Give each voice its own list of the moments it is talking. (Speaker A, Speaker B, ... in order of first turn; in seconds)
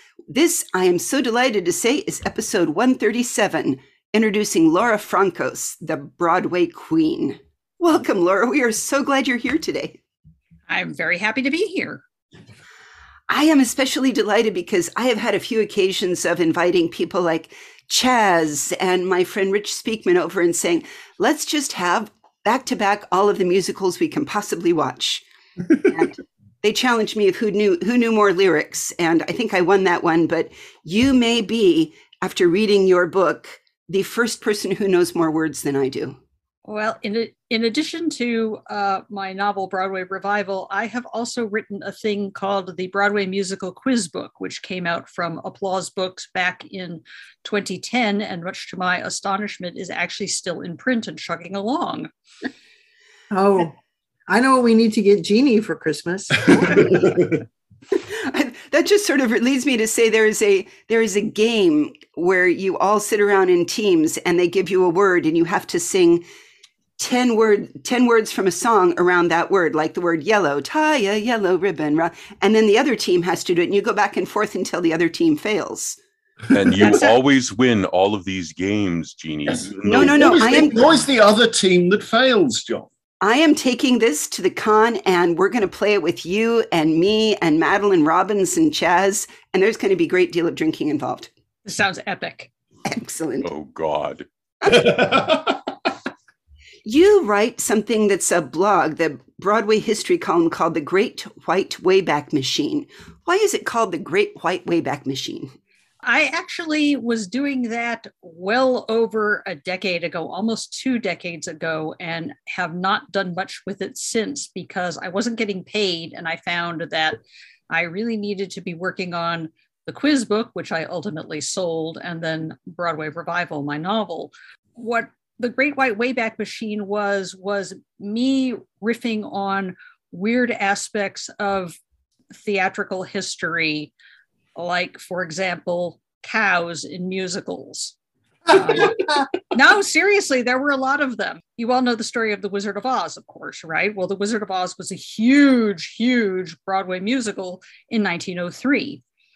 Speaker A: 0.3-10.0, 13.3-36.2, 56.6-57.2, 57.9-66.2, 67.0-76.0, 79.8-80.8, 83.2-91.3, 92.8-93.5, 94.6-95.0, 96.8-105.5
Speaker B: 10.7-12.0, 36.6-52.1, 76.8-77.2, 91.7-92.5, 106.0-117.2, 117.7-131.8, 132.3-133.9, 134.5-137.9, 138.5-149.0
Speaker C: 53.3-53.7, 54.3-57.3
Speaker D: 76.5-80.8, 93.4-94.2
Speaker E: 79.5-82.9, 94.7-95.6